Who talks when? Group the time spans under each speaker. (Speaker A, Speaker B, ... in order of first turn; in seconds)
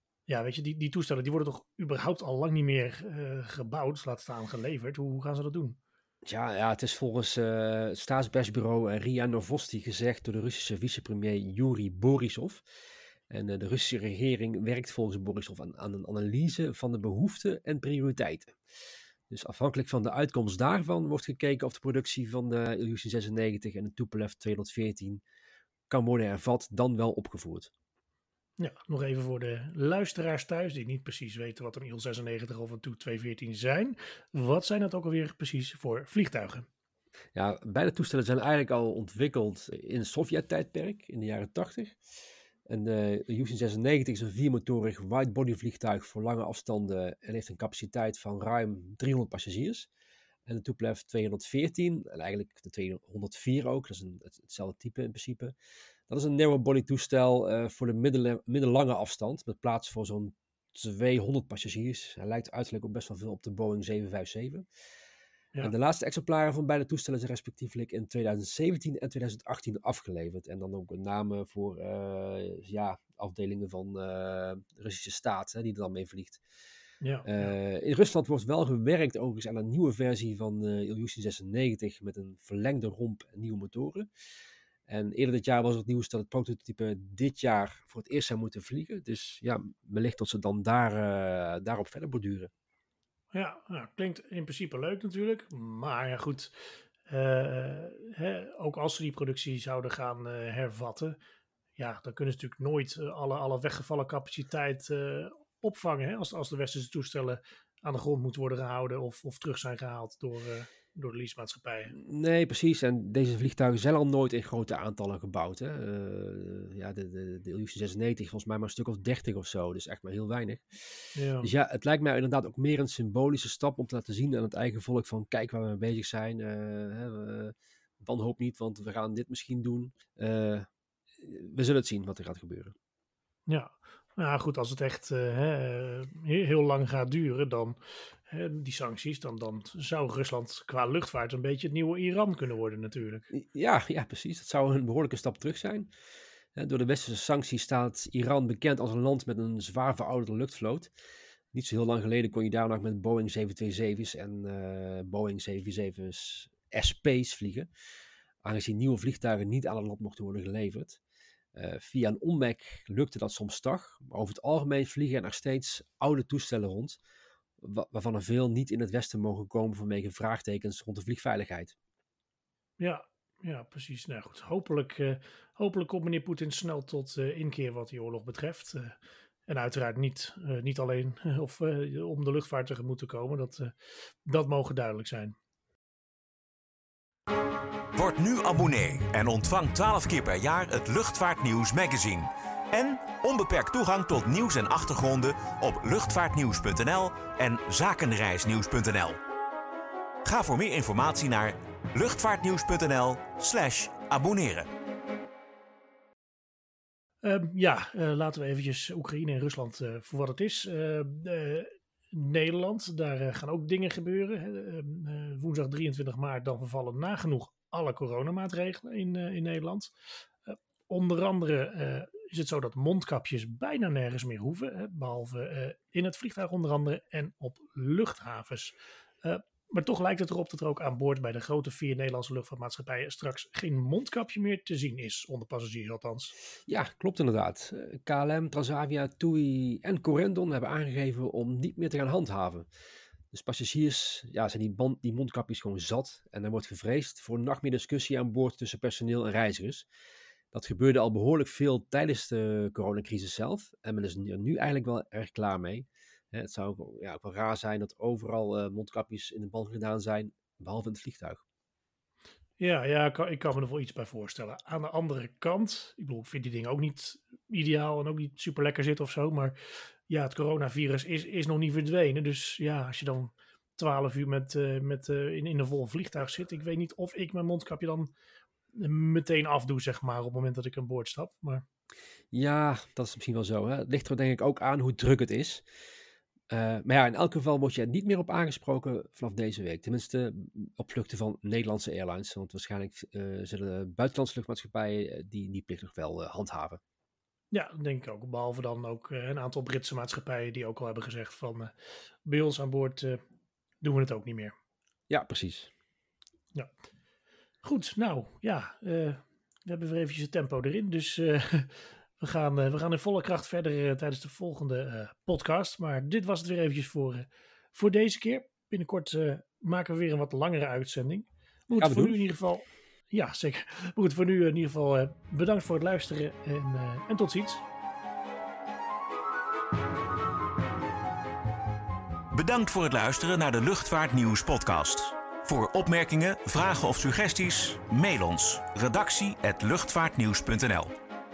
Speaker A: 0.3-5.8, 28.6-36.7, 77.0-77.5, 93.3-101.2, 101.8-111.9, 121.2-121.5, 133.5-143.3, 172.8-183.7, 184.2-185.3, 207.2-219.9, 220.5-236.3, 262.6-269.6, 270.1-278.1, 278.8-281.6, 297.5-301.7, 302.2-303.2, 303.8-304.5, 307.6-327.6
Speaker B: 6.3-12.6, 13.3-18.6, 19.3-25.2, 25.9-27.7, 37.3-42.0, 42.7-49.9, 50.5-55.5, 56.1-64.7, 65.6-76.4, 77.2-84.1, 84.9-92.5, 112.0-130.7, 131.2-132.7, 143.3-145.9, 146.6-150.9, 151.5-157.7, 158.4-161.0, 161.6-167.0, 167.6-171.8, 236.7-242.7, 243.3-249.9, 250.5-261.4, 282.3-285.6, 286.5-296.8, 305.1-305.7, 321.8-322.2
Speaker C: 187.9-199.2, 200.2-204.7, 332.3-340.9